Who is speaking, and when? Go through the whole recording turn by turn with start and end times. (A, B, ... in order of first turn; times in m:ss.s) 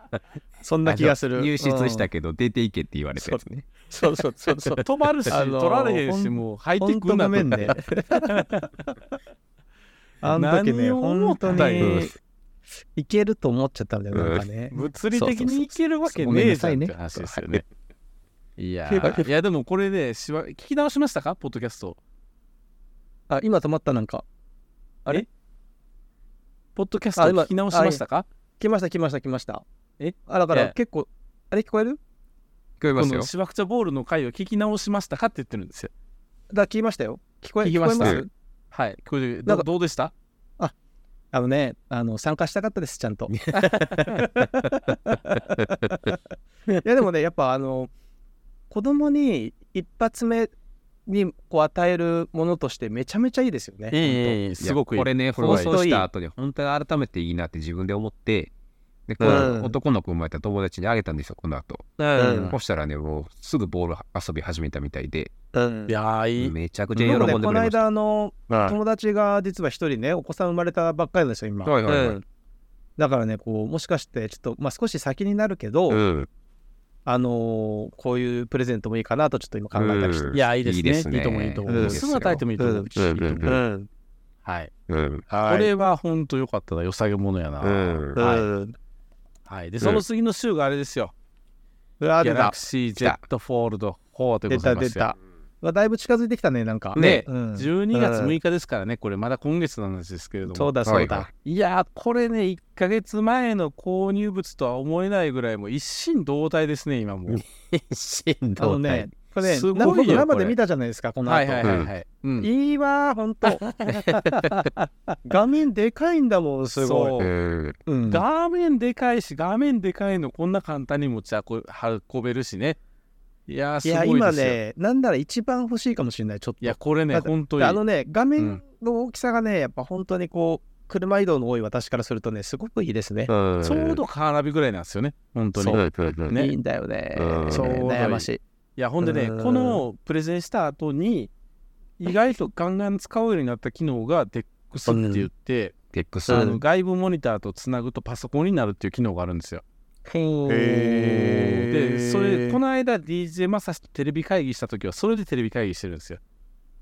0:00.6-0:02.1 A
0:00.9-0:03.7 B
0:03.2-0:08.7 A
0:04.7-0:08.7 C
0:10.2-0:12.1 A
0:10.3-0:12.1 C
0:11.8-0:12.1 B
0:13.0-0:17.6 A
0:14.1-0:14.5 B
0:14.7-0:17.7 C
0:18.6-0:22.0 C
0:18.9-0:19.3 A
0:23.3-0:24.2 A
0:26.8-0:28.3 C
0:27.2-0:28.0 A
0:28.6-0:29.6 A
0:30.0-0:30.7 C
0:30.3-0:32.0 A
0:32.8-0:33.3 B
0:33.0-0:35.9 C
0:36.5-0:38.3 A
0:37.6-0:40.1 C
0:41.3-0:46.2 A
0:43.3-0:44.1 B
0:45.6-0:46.1 B
0:46.8-0:47.9 A
0:48.7-0:50.5 A
0:51.1-0:54.4 A
0:53.9-0:55.8 C
0:54.6-0:58.5 B
0:55.4-0:56.1 A
0:59.1-1:05.3 B
0:59.2-0:59.8 A
1:02.0-1:02.6 A
1:02.2-1:02.6 C
1:05.5-1:05.9 A
1:05.9-1:07.4 C
1:06.4-1:07.8 B
1:07.0-1:12.2 A
1:11.6-1:12.2 B
1:13.0-1:16.0 A
1:15.9-1:16.3 B
1:17.1-1:20.4 A
1:19.8-1:23.6 B
1:20.3-1:23.6 C
1:21.7-1:22.0 A
1:22.6-1:22.9 A
1:23.4-1:23.9 A
1:24.4-1:24.7 C
1:24.9-1:25.3 B
1:25.3-1:25.7 A
1:25.4-1:28.4 C
1:27.6-1:28.2 B
1:28.2-1:28.8 A
1:29.5-1:31.1 C
1:32.0-1:32.6 A
1:32.2-1:35.1 C
1:34.5-1:38.4 A
1:37.0-1:37.3 B
1:37.0-1:40.7 C
1:40.5-1:41.3 A
1:40.9-1:41.3 B
1:41.4-1:47.4 C
1:47.3-1:49.1 B
1:48.6-1:51.7 A
1:49.4-1:50.6 C
1:51.3-1:52.5 C
1:51.6-1:51.9 B
1:52.4-1:53.7 A
1:53.9-1:54.3 C
1:55.2-1:57.2 A
1:56.8-1:57.3 C
1:57.2-1:57.8 B
1:57.9-1:58.2 A
1:58.1-2:02.8 C
2:03.5-2:04.6 C
2:03.8-2:13.3 A
2:06.6-2:07.8 C
2:13.3-2:14.0 B
2:13.6-2:16.5 C
2:15.6-2:18.4 A
2:15.7-2:16.4 B
2:17.2-2:17.8 B
2:17.5-2:21.3 C
2:19.0-2:19.8 A
2:22.0-2:25.8 C
2:24.9-2:25.3 A
2:25.9-2:26.5 B
2:26.3-2:29.6 C
2:26.3-2:26.6 A
2:30.1-2:32.6 A
2:30.5-2:36.2 C